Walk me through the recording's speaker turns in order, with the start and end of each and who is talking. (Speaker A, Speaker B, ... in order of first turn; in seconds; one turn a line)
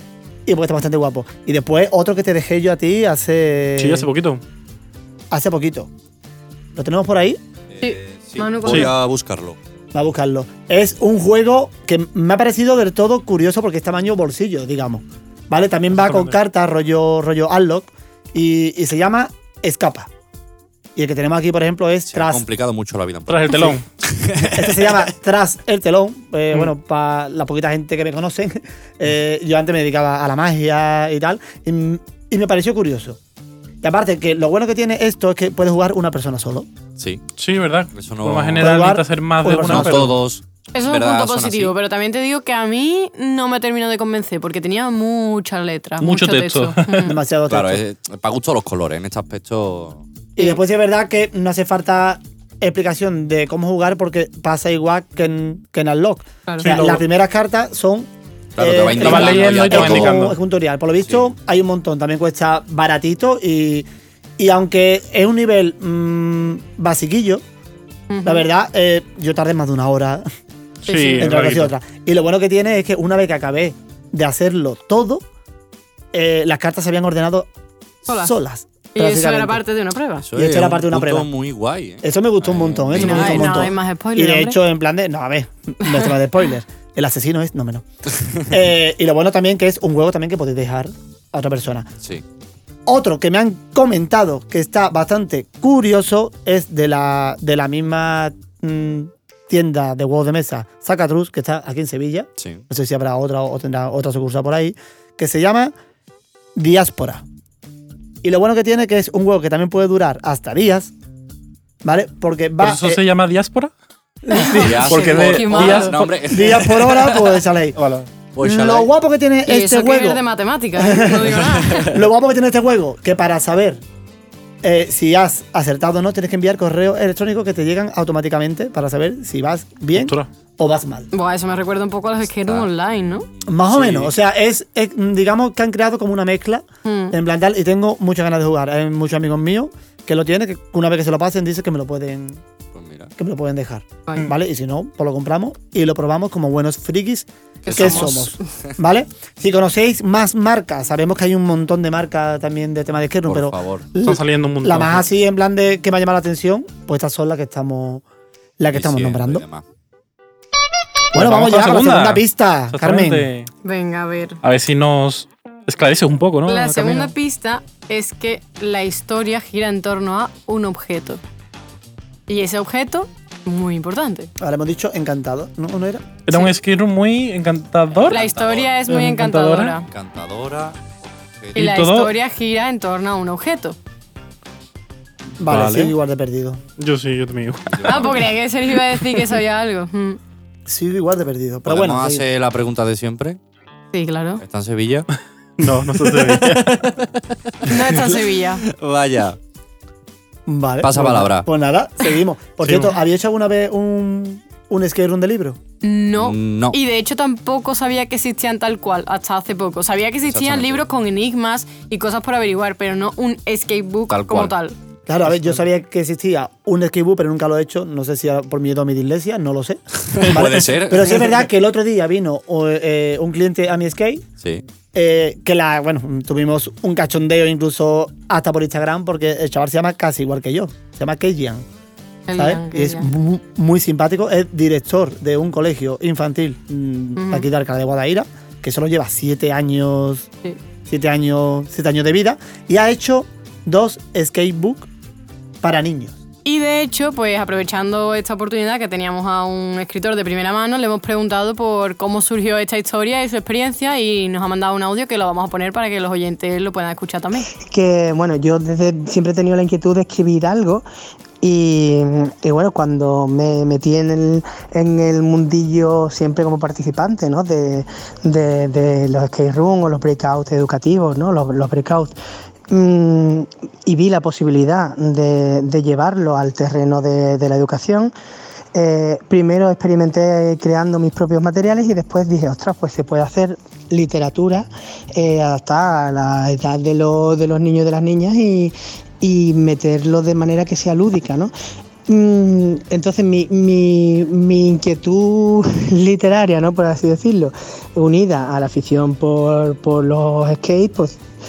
Speaker A: 0.5-4.1
Speaker B: 3.8-4.4
Speaker A: 5.3-5.9
Speaker A: 6.8-7.4
Speaker C: 7.7-9.6
Speaker D: 7.8-8.9
Speaker B: 8.7-8.9
Speaker A: 9.9-20.1
Speaker B: 15.9-16.4
Speaker A: 21.0-22.4
Speaker C: 22.1-25.1
Speaker B: 23.3-23.8
Speaker A: 23.5-23.8
Speaker A: 24.4-33.2
Speaker A: 33.8-36.7
Speaker B: 37.4-40.1
Speaker C: 37.9-38.7
Speaker A: 38.6-40.1
Speaker C: 39.6-41.7
Speaker D: 40.7-47.2
Speaker B: 46.0-47.1
Speaker A: 47.0-47.8
Speaker C: 47.5-50.0
Speaker A: 50.4-63.9
Speaker B: 56.6-57.0
Speaker C: 58.6-60.2
Speaker B: 59.0-60.4
Speaker A: 64.4-67.4
Speaker D: 68.1-68.5
Speaker A: 68.2-70.3
Speaker B: 70.8-71.7
Speaker D: 70.9-71.3
Speaker A: 71.2-75.2
Speaker A: 76.1-77.5
Speaker A: 78.0-79.6
Speaker D: 78.1-78.3
Speaker D: 79.0-80.3
Speaker C: 80.3-83.6
Speaker A: 80.3-81.3
Speaker A: 82.0-87.8
Speaker D: 83.0-84.6
Speaker D: 85.8-86.1
Speaker A: 88.5-91.9
Speaker A: 92.9-105.7
Speaker A: 106.5-107.2
Speaker A: 108.2-110.9
Speaker A: 111.8-113.0
Speaker B: 112.6-113.7
Speaker A: 114.2-115.0
Speaker D: 114.3-116.0
Speaker C: 114.6-117.4
Speaker B: 114.9-116.1
Speaker A: 116.3-117.8
Speaker B: 117.8-118.1
Speaker C: 118.3-118.9
Speaker A: 118.4-120.2
Speaker D: 119.5-121.9
Speaker A: 120.8-123.8
Speaker A: 124.6-131.1
Speaker B: 130.0-130.3
Speaker D: 131.1-133.3
Speaker C: 132.4-134.1
Speaker A: 133.4-142.4
Speaker D: 136.8-137.2
Speaker C: 142.8-143.1
Speaker A: 143.2-158.1
Speaker C: 147.7-148.7
Speaker D: 147.7-148.2
Speaker C: 153.3-153.9
Speaker B: 154.0-155.1
Speaker A: 158.6-159.4
Speaker C: 158.7-159.6
Speaker A: 161.1-163.3
Speaker B: 161.1-163.5
Speaker D: 163.6-164.4
Speaker B: 164.4-167.1
Speaker D: 166.5-171.2
Speaker D: 172.3-174.3
Speaker A: 174.4-176.1
Speaker B: 176.3-178.2
Speaker C: 178.0-178.8
Speaker D: 178.1-179.9
Speaker B: 178.9-179.8
Speaker C: 179.9-181.7
Speaker B: 181.6-182.1
Speaker D: 181.6-183.8
Speaker A: 185.4-186.6
Speaker B: 185.4-185.9
Speaker B: 186.8-188.2
Speaker C: 187.7-188.3
Speaker D: 187.9-190.2
Speaker A: 190.7-192.2
Speaker C: 191.7-193.4
Speaker D: 193.9-194.4
Speaker C: 194.4-195.1
Speaker B: 195.6-196.8
Speaker C: 196.0-199.4
Speaker D: 197.6-198.6
Speaker A: 200.5-205.6
Speaker C: 200.8-201.5
Speaker B: 202.6-202.9
Speaker D: 205.8-214.8
Speaker C: 206.2-206.8
Speaker C: 210.3-210.8
Speaker C: 214.1-214.5
Speaker A: 215.1-224.2
Speaker C: 220.1-221.3
Speaker A: 224.9-231.7
Speaker D: 232.3-233.1
Speaker A: 232.4-240.3
Speaker D: 237.2-237.5
Speaker A: 240.9-244.9
Speaker A: 245.6-246.2
Speaker D: 246.4-257.5
Speaker E: 257.6-260.9
Speaker E: 261.4-272.1
Speaker E: 272.7-278.1
Speaker E: 278.7-291.5
Speaker E: 292.1-301.2